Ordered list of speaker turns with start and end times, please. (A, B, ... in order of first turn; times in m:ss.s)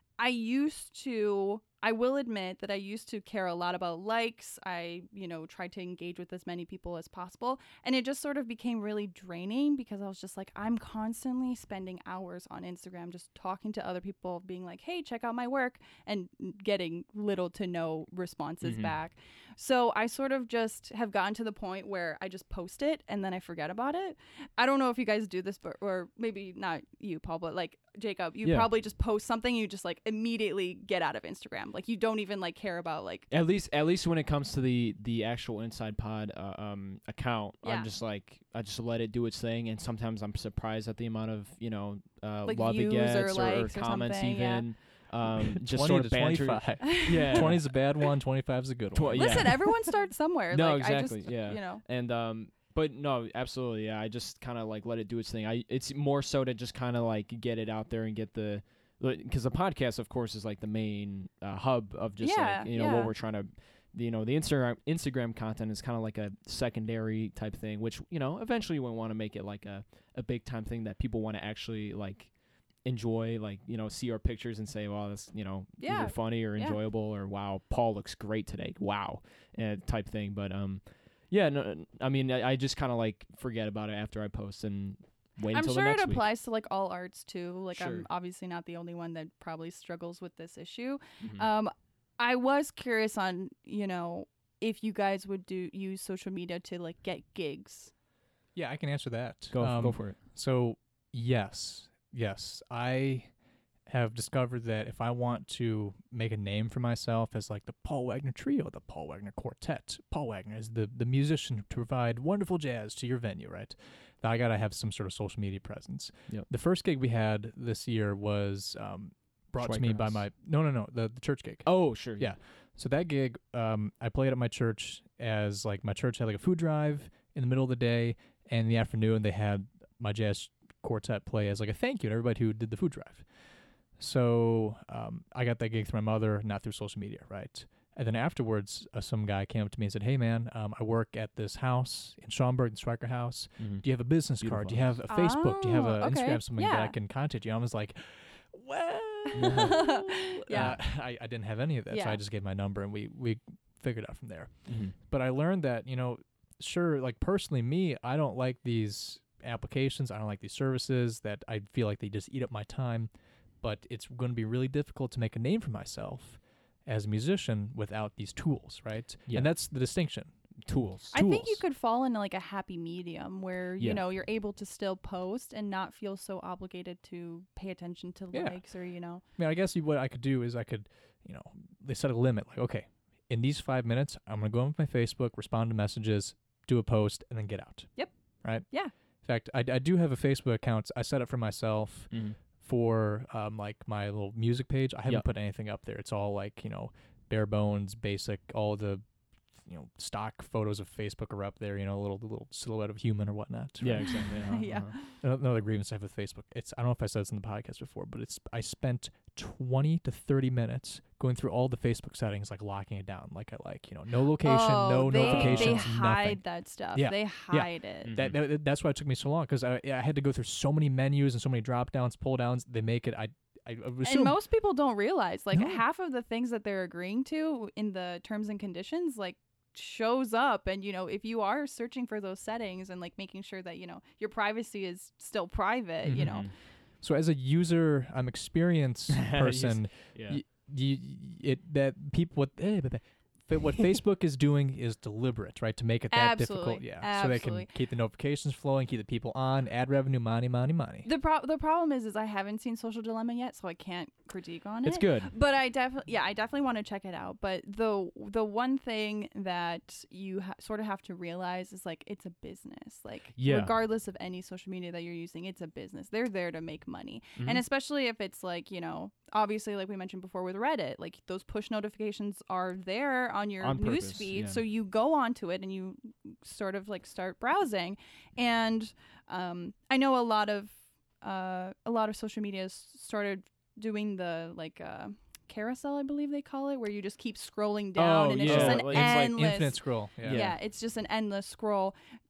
0:00.2-0:33.3 A
0:18.6-0:19.0 B
0:28.4-0:28.7 B
0:33.3-0:47.7 B
0:37.6-0:37.9 A
0:42.4-0:44.6 A
0:45.4-0:49.7 C
0:46.8-0:47.5 A
0:48.9-0:49.8 B
0:49.1-0:51.8 A
0:50.5-1:12.3 B
1:02.2-1:03.1 A
1:12.8-1:26.3 B
1:15.8-1:16.8 A
1:25.5-1:37.9 A
1:27.7-1:28.1 B
1:31.2-1:31.5 B
1:38.6-1:43.3 C
1:39.5-1:40.2 B
1:43.9-2:13.3 C
1:59.6-2:00.2 B
2:01.6-2:02.3 B
2:14.0-2:43.1 C
2:24.4-2:24.8 B
2:25.1-2:26.9 A
2:29.3-2:30.8 A
2:29.3-2:29.9 B
2:31.9-2:32.2 A
2:34.7-2:34.9 B
2:43.6-2:50.3 C
2:50.6-2:51.1 B
2:51.1-2:51.6 C
2:51.1-2:59.2 A
2:58.3-2:58.6 C
2:59.4-3:07.9 C
3:09.2-3:19.0 C
3:12.1-3:12.4 B
3:19.6-3:24.4 C
3:23.8-3:25.0 B
3:24.2-3:25.2 A
3:25.1-3:36.4 C
3:34.4-3:38.2 A
3:35.2-3:35.9 B
3:37.0-3:44.4 C
3:38.1-3:38.4 B
3:44.0-3:56.5 A
3:45.5-3:45.8 C
3:56.0-3:56.4 C
3:56.2-3:56.5 B
3:57.0-4:11.1 C
3:59.2-4:00.4 B
4:06.1-4:07.7 A
4:11.0-4:52.0 A
4:14.8-4:15.3 B
4:23.4-4:23.7 B
4:27.4-4:27.6 B
4:33.6-4:34.6 B
4:48.0-4:49.5 B
4:48.4-4:50.5 C
4:50.2-4:50.6 B